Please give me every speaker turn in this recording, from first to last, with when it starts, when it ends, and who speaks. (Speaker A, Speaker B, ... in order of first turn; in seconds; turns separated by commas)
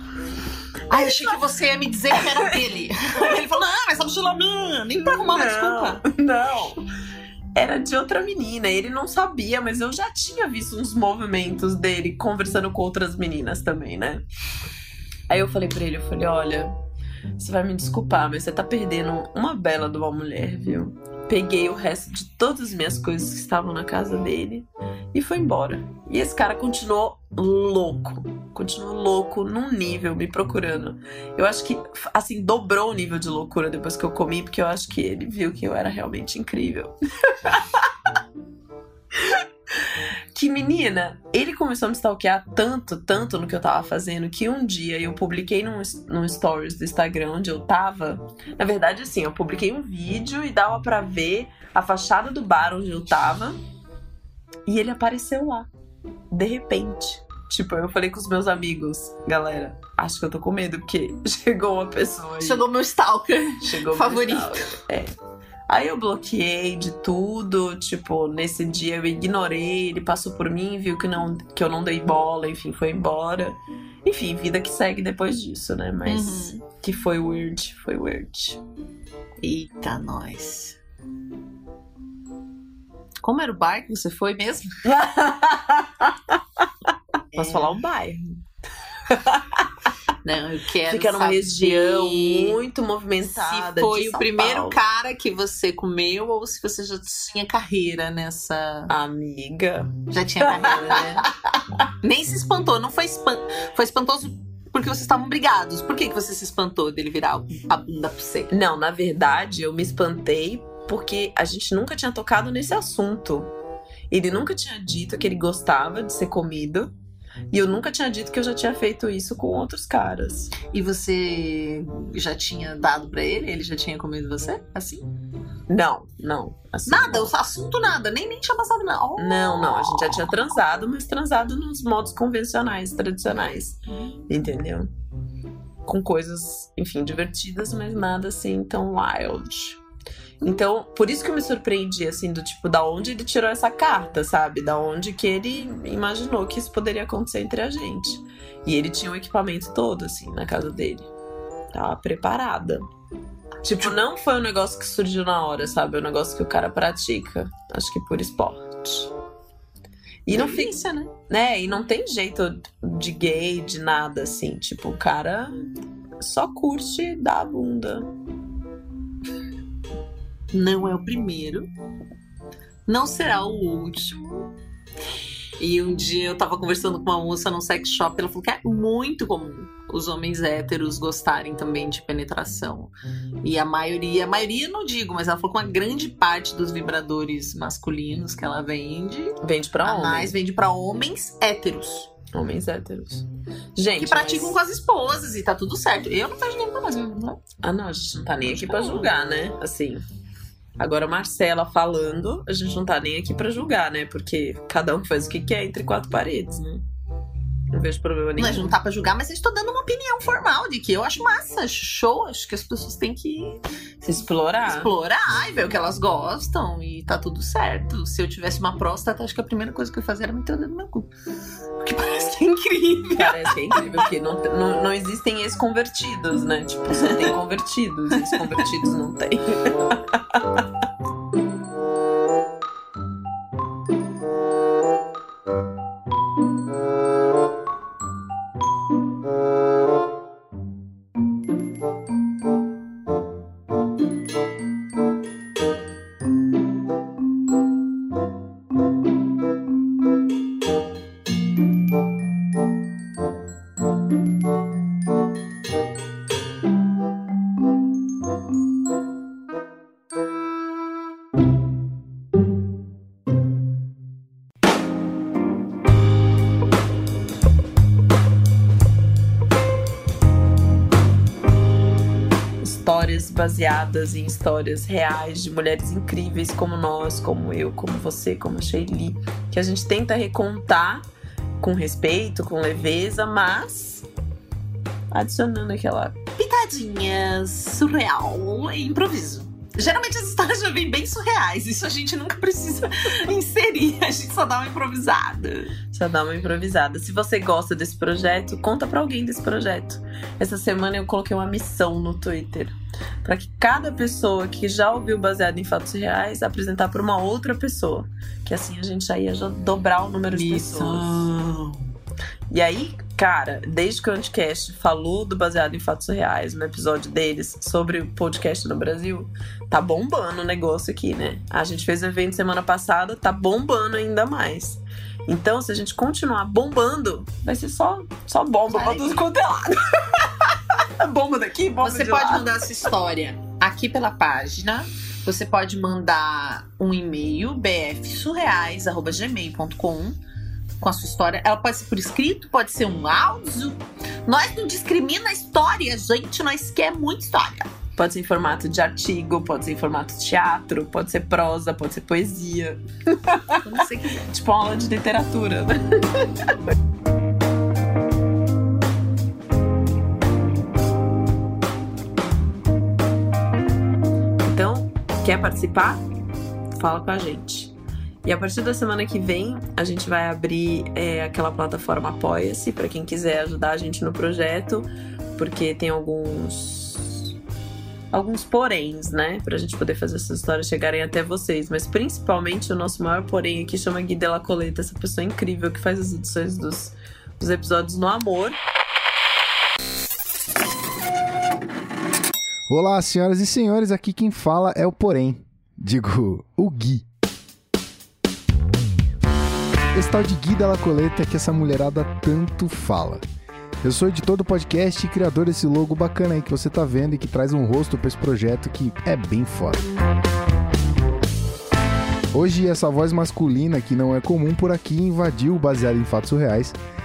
Speaker A: 0.9-6.0, Speaker B: 0.9-1.2, Speaker B: 5.0-6.8, Speaker B: 7.5-14.2, Speaker B: 15.3-16.7, Speaker B: 17.4-37.9, Speaker B: 40.3-53.6, Speaker B: 54.7-55.7, Speaker B: 56.3-62.7, Speaker A: 62.4-64.8, Speaker B: 63.6-65.1, Speaker B: 65.7-78.6, Speaker A: 76.0-76.6, Speaker A: 79.4-80.8, Speaker A: 83.2-84.8, Speaker B: 84.8-86.6, Speaker A: 87.3-87.8, Speaker B: 87.3-88.4, Speaker B: 89.0-89.7, Speaker A: 90.2-92.6, Speaker B: 90.9-94.8, Speaker A: 93.2-98.9, Speaker B: 98.9-101.3, Speaker A: 100.1-101.2, Speaker A: 102.0-108.5, Speaker B: 108.5-113.5, Speaker B: 114.1-116.9, Speaker B: 117.5-120.5, Speaker A: 120.7-125.1, Speaker B: 125.7-127.3, Speaker A: 126.8-130.1, Speaker B: 129.2-134.9, Speaker B: 135.8-139.8, Speaker B: 140.4-151.1, Speaker B: 151.7-152.8, Speaker B: 153.6-159.1, Speaker B: 160.2-165.6, Speaker A: 160.3-161.0, Speaker B: 166.2-168.1, Speaker A: 170.5-171.7, Speaker A: 172.8-174.5, Speaker A: 175.6-192.1, Speaker B: 189.4-190.3, Speaker B: 192.3-194.6, Speaker A: 194.0-197.4, Speaker B: 197.6-200.0, Speaker A: 198.4-199.1, Speaker B: 200.8-206.8, Speaker B: 207.7-208.7, Speaker A: 208.4-213.6, Speaker B: 214.0-214.9, Speaker A: 214.6-221.1, Speaker A: 221.8-224.1, Speaker B: 223.1-230.6, Speaker A: 228.3-228.6, Speaker B: 272.6-281.1, Speaker B: 281.6-284.1, Speaker B: 285.1-286.2, Speaker A: 286.4-295.8, Speaker B: 295.9-311.3, Speaker A: 310.3-311.9, Speaker B: 312.5-332.5, Speaker A: 328.7-329.2, Speaker A: 331.8-340.2, Speaker A: 340.8-347.7, Speaker B: 347.9-353.6, Speaker A: 353.6-354.2, Speaker B: 354.2-356.5, Speaker B: 364.4-366.0, Speaker B: 366.8-367.7, Speaker B: 368.2-377.3, Speaker B: 378.1-388.6, Speaker C: 392.7-397.0, Speaker C: 399.9-403.2, Speaker C: 403.8-409.9, Speaker C: 412.3-416.8